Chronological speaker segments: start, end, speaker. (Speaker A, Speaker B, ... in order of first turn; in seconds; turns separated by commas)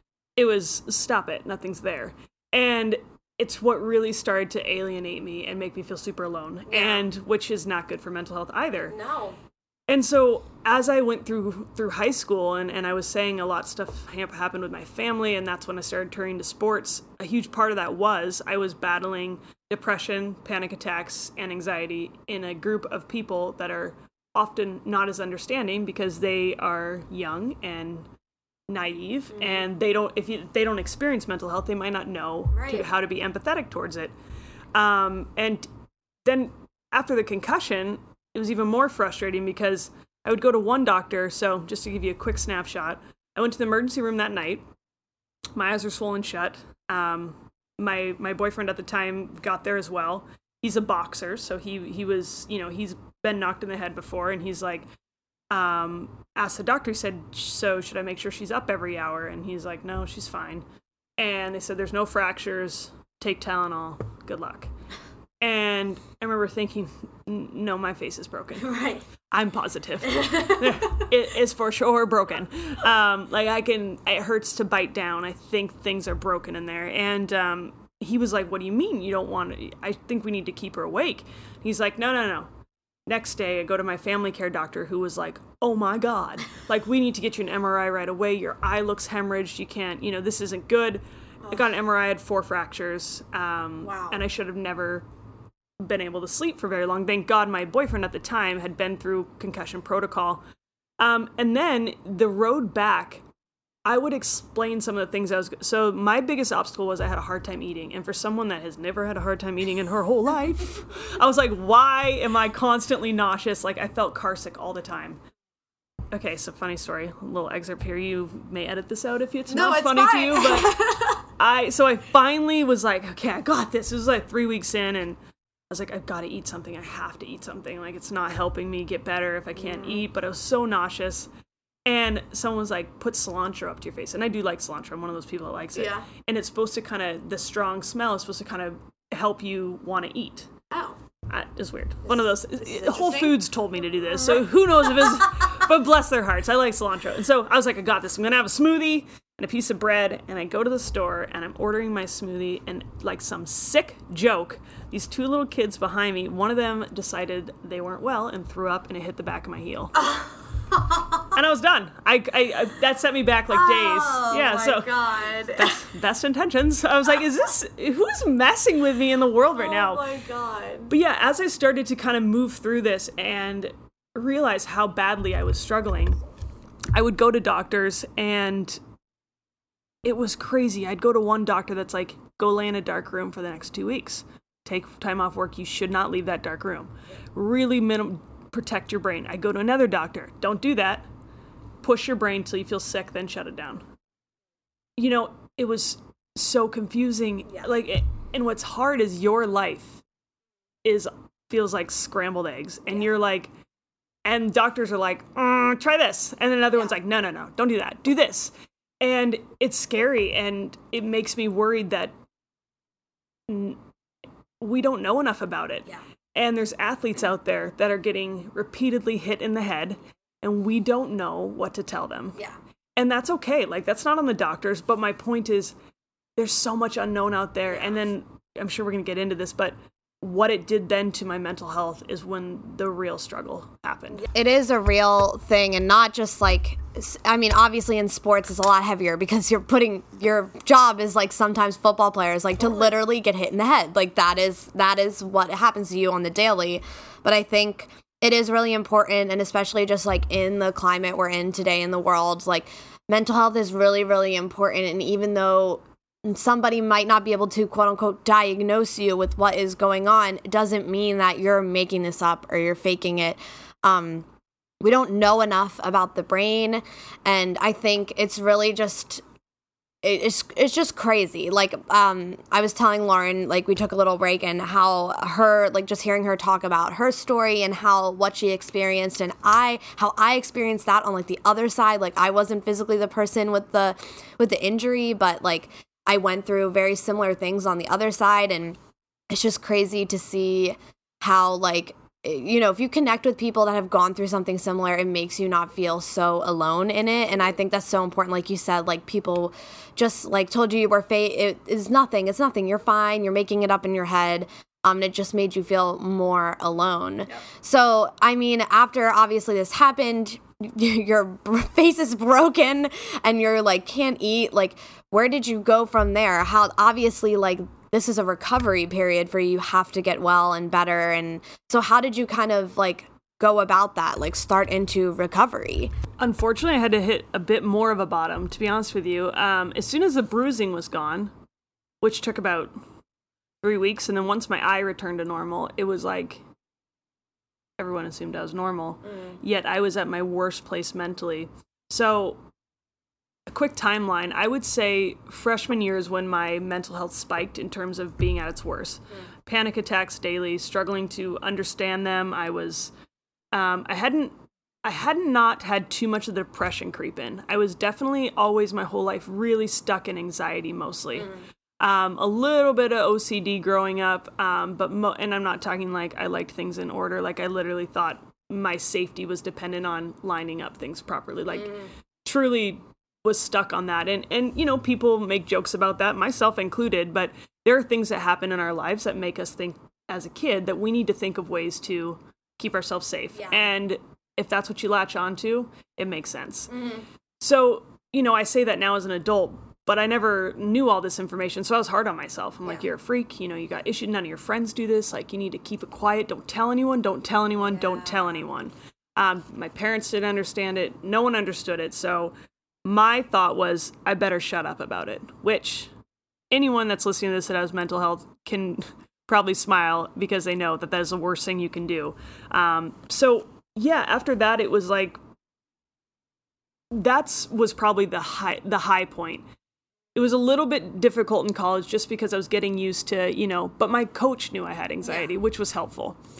Speaker A: 0.4-8.9, Speaker B: 6.7-7.1, Speaker B: 8.9-9.4, Speaker A: 9.9-28.1, Speaker A: 28.7-34.1, Speaker B: 29.4-29.6, Speaker B: 32.5-32.9, Speaker A: 34.8-35.7, Speaker A: 36.2-44.6, Speaker A: 45.6-54.9, Speaker A: 55.5-60.6, Speaker A: 61.2-64.7, Speaker A: 65.4-82.5, Speaker B: 68.6-69.0, Speaker B: 70.2-70.7, Speaker A: 83.1-95.1, Speaker B: 93.8-94.2, Speaker A: 95.8-100.4, Speaker A: 101.0-103.2, Speaker A: 103.9-115.2, Speaker A: 116.1-125.2, Speaker B: 119.5-121.2, Speaker A: 125.7-131.3, Speaker B: 129.6-130.0, Speaker A: 131.9-140.5, Speaker B: 135.8-136.1, Speaker B: 140.7-141.0, Speaker A: 141.3-160.0, Speaker B: 142.6-143.4, Speaker B: 145.0-145.4, Speaker B: 160.0-161.3, Speaker A: 161.3-170.1, Speaker B: 163.5-165.8, Speaker B: 169.6-170.9, Speaker A: 170.9-176.2, Speaker A: 176.9-178.8, Speaker A: 180.0-191.1, Speaker A: 191.8-193.8, Speaker A: 195.0-200.0, Speaker A: 200.8-203.5, Speaker A: 204.3-212.1, Speaker A: 213.5-213.8, Speaker A: 214.6-222.4, Speaker A: 223.0-225.8, Speaker A: 226.4-234.3, Speaker B: 234.2-264.3, Speaker B: 264.8-269.2, Speaker B: 270.0-288.8, Speaker B: 289.3-325.9, Speaker A: 326.2-331.3, Speaker A: 332.0-332.7, Speaker A: 333.6-336.4, Speaker A: 337.8-342.4, Speaker B: 339.1-339.4, Speaker A: 343.5-352.9, Speaker A: 353.5-386.7, Speaker B: 371.5-371.9, Speaker B: 386.7-387.1, Speaker A: 387.4-402.3, Speaker B: 397.7-398.4, Speaker A: 402.9-405.9, Speaker A: 406.5-415.2, Speaker A: 416.9-419.4, Speaker A: 420.1-426.2